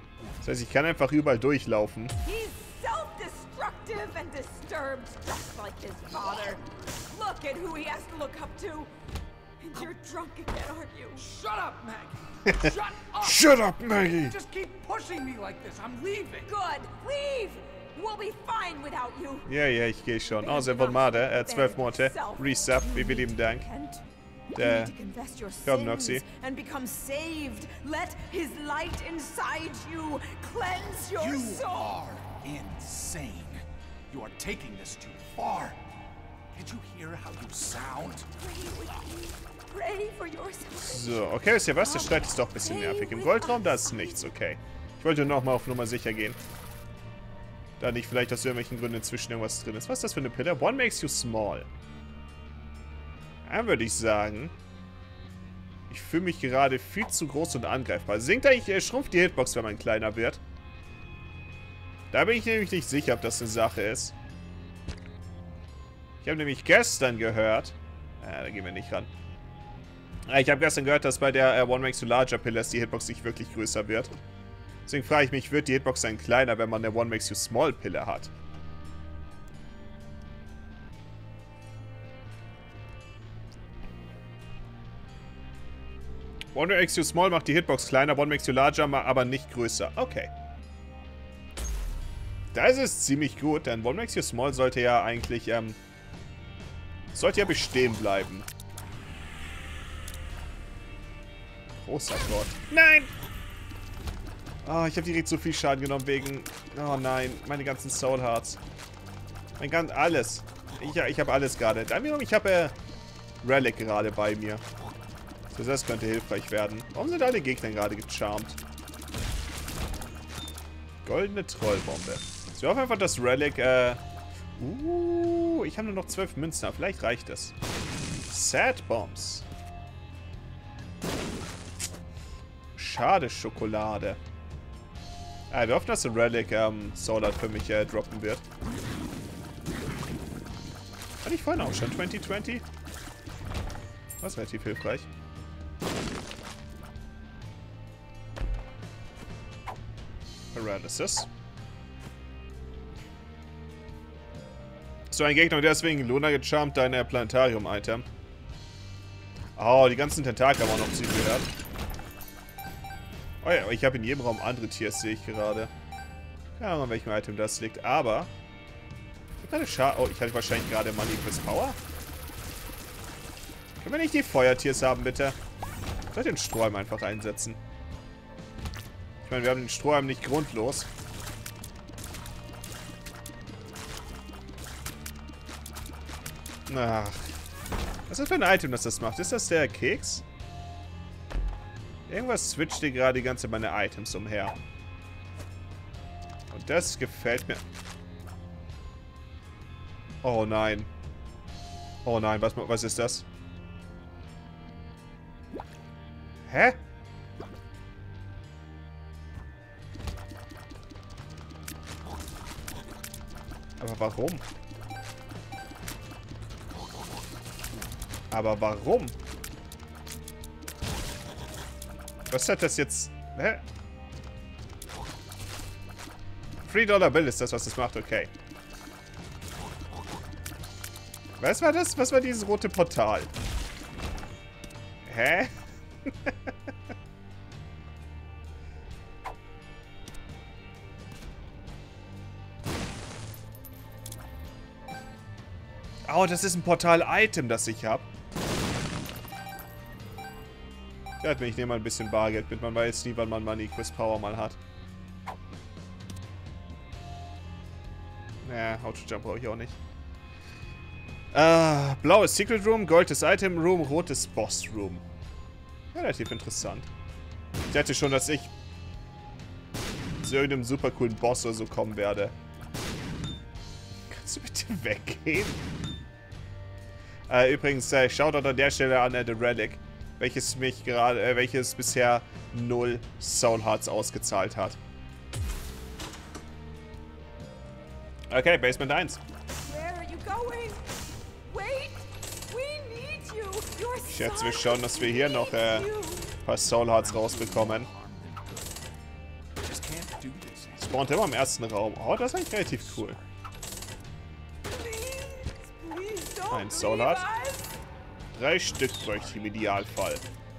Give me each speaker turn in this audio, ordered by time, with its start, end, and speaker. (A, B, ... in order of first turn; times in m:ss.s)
0:00.4-0:02.1 A
0:02.2-0:08.9 B
0:09.6-0:11.2 B
0:11.2-0:16.5 C
0:12.4-0:14.4 A
0:16.4-0:19.5 B
0:19.4-0:23.6 A
0:20.3-0:32.0 B
0:24.5-0:24.9 A
0:25.6-0:26.2 A
0:31.2-0:35.8 C
0:36.5-0:38.3 C
0:38.3-0:44.3 B
0:40.8-0:46.4 A
0:47.8-0:51.7 A
0:53.4-0:54.5 A
0:55.9-1:00.4 A
1:02.1-1:04.1 A
1:06.2-1:09.1 A
1:10.3-1:14.1 A
1:14.8-1:18.3 A
1:26.5-1:30.3 A
1:32.5-1:35.8 A
1:37.1-1:38.5 A
1:41.8-1:43.1 A
1:44.6-1:48.6 A
1:49.6-1:52.7 A
1:53.4-1:54.6 A
1:55.5-1:58.6 A
2:01.0-2:04.0 A
2:04.6-2:07.5 A
2:08.3-2:09.4 A
2:12.7-2:14.2 A
2:15.5-2:18.4 A
2:21.2-2:22.6 A
2:24.2-2:25.1 A
2:30.5-2:31.3 A
2:35.1-2:38.0 A
2:39.6-2:41.5 A
2:43.4-2:45.7 A
2:46.6-2:48.3 A
2:49.4-2:51.8 A
2:53.8-2:55.4 A
2:56.1-2:57.6 A
2:59.2-3:00.9 A
3:06.7-3:07.2 A
3:08.1-3:10.2 A
3:12.1-3:14.6 A
3:16.5-3:17.6 A
3:20.2-3:20.9 A
3:22.0-3:23.2 A
3:26.5-3:26.8 A
3:33.8-3:34.4 A
3:38.3-3:39.2 A
3:42.3-3:43.6 A
3:46.6-3:48.3 A
3:51.4-3:53.3 A
3:55.0-3:55.5 A
3:56.0-3:56.5 A
4:06.1-4:08.0 A
4:11.2-4:14.6 A
4:18.4-4:19.8 A
4:21.3-4:25.0 A
4:25.9-4:26.9 A
4:27.7-4:28.5 A
4:30.2-4:32.3 A
4:34.1-4:35.6 A
4:37.3-4:44.8 A
4:48.3-4:49.2 A
4:49.6-4:50.9 B
4:51.4-4:56.3 B
4:54.1-4:55.9 A
4:56.4-4:57.9 A
4:56.7-4:58.8 C
4:59.6-5:01.1 C
5:00.8-5:03.2 A
5:02.6-5:03.2 C
5:04.7-5:07.7 B
5:06.5-5:07.2 A
5:08.3-5:10.2 A